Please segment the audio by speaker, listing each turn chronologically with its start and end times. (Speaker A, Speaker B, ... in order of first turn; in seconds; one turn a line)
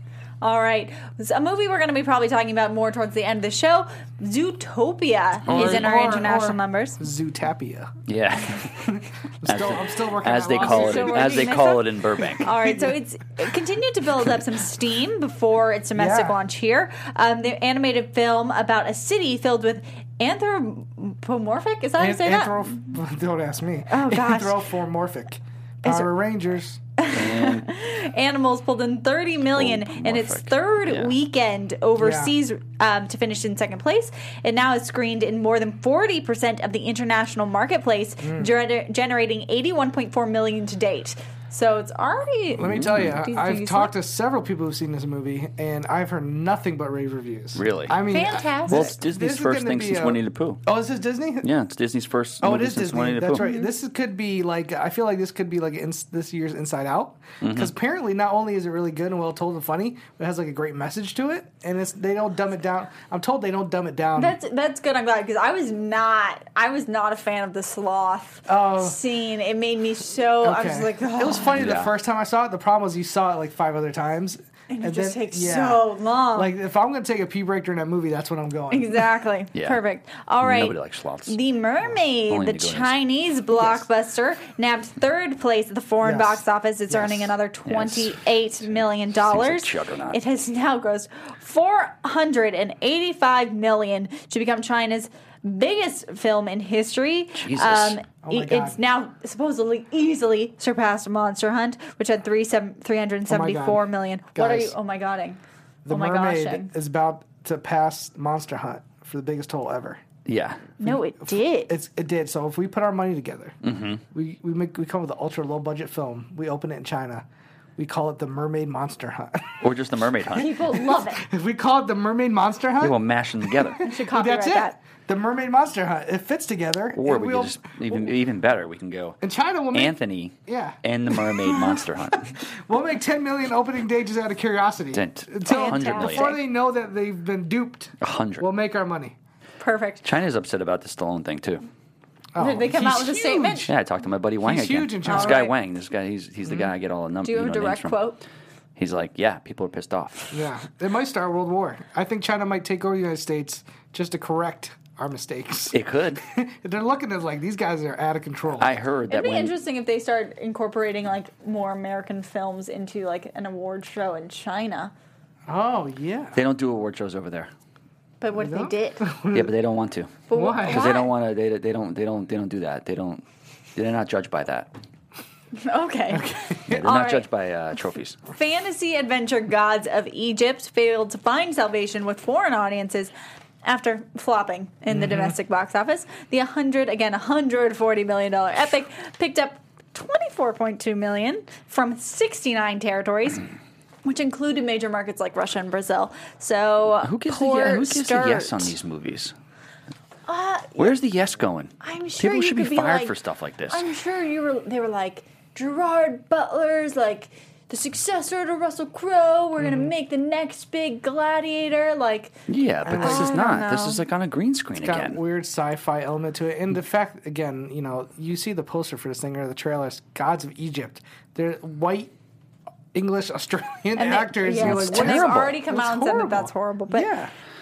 Speaker A: 0.4-7.0
Speaker B: 5.5-5.9
Speaker C: 5.5-7.9
Speaker B: 8.1-8.9
Speaker C: 8.8-11.7
Speaker B: 9.4-12.5
Speaker A: 10.6-22.7
Speaker C: 12.2-13.0
Speaker C: 15.9-16.4
Speaker C: 22.0-26.8
Speaker A: 23.9-24.6
Speaker A: 25.9-26.1
Speaker A: 27.0-43.9
Speaker B: 27.1-27.7
Speaker B: 29.6-31.1
Speaker C: 32.0-32.3
Speaker C: 38.2-38.5
Speaker C: 42.5-51.5
Speaker B: 42.7-43.2
Speaker B: 47.5-48.0
Speaker A: 48.1-48.9
Speaker B: 48.7-50.6
Speaker B: 51.4-53.4
Speaker C: 52.4-64.4
Speaker A: 53.4-53.7
Speaker B: 57.4-57.7
Speaker A: 64.2-71.5
Speaker C: 68.5-69.0
Speaker C: 70.4-79.0
Speaker B: 71.5-71.9
Speaker A: 74.7-76.5
Speaker A: 78.7-80.8
Speaker B: 79.5-79.8
Speaker B: 80.4-81.4
Speaker A: 81.3-106.7
Speaker B: 82.3-83.0
Speaker C: 83.6-83.8
Speaker C: 86.0-87.3
Speaker B: 87.7-90.2
Speaker B: 97.4-98.0
Speaker C: 98.2-98.8
Speaker C: 103.3-104.7
Speaker C: 105.9-110.0
Speaker B: 110.3-110.7
Speaker A: 110.8-111.7
Speaker C: 110.8-113.6
Speaker B: 113.6-114.0
Speaker C: 114.1-117.3
Speaker C: 117.8-119.6
Speaker B: 119.6-120.6
Speaker A: 120.3-121.2
Speaker C: 121.0-128.1
Speaker B: 122.8-123.8
Speaker A: 123.8-124.8
Speaker B: 126.9-129.2
Speaker C: 129.2-131.8
Speaker B: 129.7-132.3
Speaker C: 132.3-139.2
Speaker B: 134.9-136.4
Speaker A: 135.5-136.4
Speaker B: 138.0-138.5
Speaker A: 139.6-140.0
Speaker B: 140.0-141.6
Speaker C: 142.3-143.7
Speaker A: 142.4-143.7
Speaker B: 143.7-148.1
Speaker C: 144.4-145.5
Speaker A: 145.1-145.5
Speaker A: 147.2-148.2
Speaker B: 148.8-150.4
Speaker C: 150.3-158.7
Speaker B: 155.7-156.2
Speaker B: 158.6-159.6
Speaker A: 159.1-164.9
Speaker C: 165.5-166.4
Speaker B: 166.3-167.5
Speaker A: 168.2-169.0
Speaker C: 168.3-169.6
Speaker B: 169.3-173.2
Speaker A: 170.3-171.1
Speaker C: 170.3-170.9
Speaker B: 173.8-174.7
Speaker A: 175.6-177.3
Speaker C: 176.1-176.8
Speaker B: 176.7-178.2
Speaker A: 178.3-183.1
Speaker A: 183.6-193.5
Speaker C: 184.9-185.3
Speaker A: 194.0-198.7
Speaker B: 197.0-199.3
Speaker A: 200.3-200.9
Speaker B: 200.8-203.9
Speaker A: 201.8-203.1
Speaker A: 203.7-212.4
Speaker C: 209.6-209.9
Speaker B: 212.5-215.2
Speaker C: 212.8-213.4
Speaker A: 212.9-214.0
Speaker C: 214.8-222.1
Speaker C: 222.9-227.3
Speaker A: 224.0-227.1
Speaker B: 224.6-225.6